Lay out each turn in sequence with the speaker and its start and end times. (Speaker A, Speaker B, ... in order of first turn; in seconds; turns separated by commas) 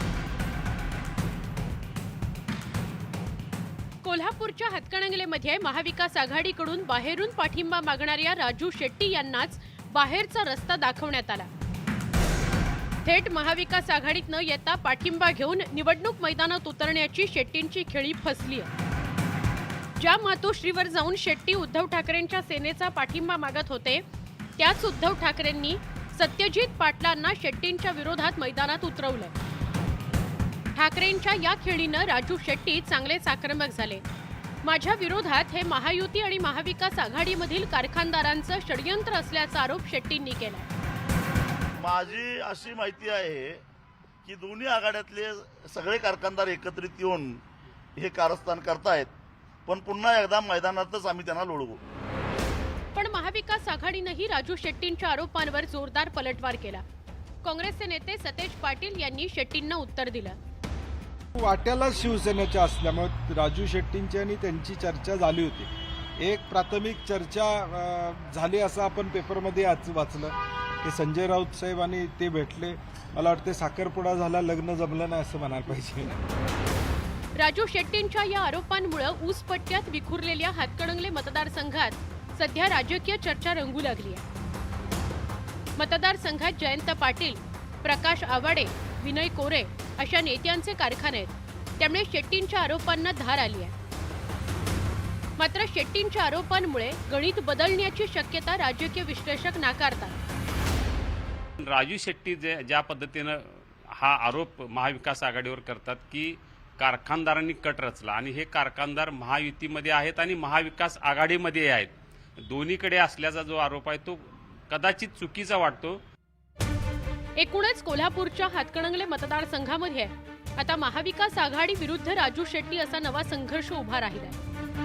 Speaker A: 4.0-11.5, Speaker A: 13.0-18.7, Speaker A: 20.0-24.0, Speaker A: 24.6-29.3, Speaker A: 30.8-34.0, Speaker A: 34.6-40.7, Speaker B: 41.8-43.6, Speaker B: 44.2-47.4, Speaker B: 48.0-49.1, Speaker B: 49.7-51.8, Speaker A: 53.0-56.8, Speaker A: 57.4-60.4, Speaker C: 61.4-76.2, Speaker A: 77.4-84.2, Speaker A: 85.8-93.7, Speaker A: 95.4-100.2, Speaker D: 101.6-116.0, Speaker A: 117.4-124.4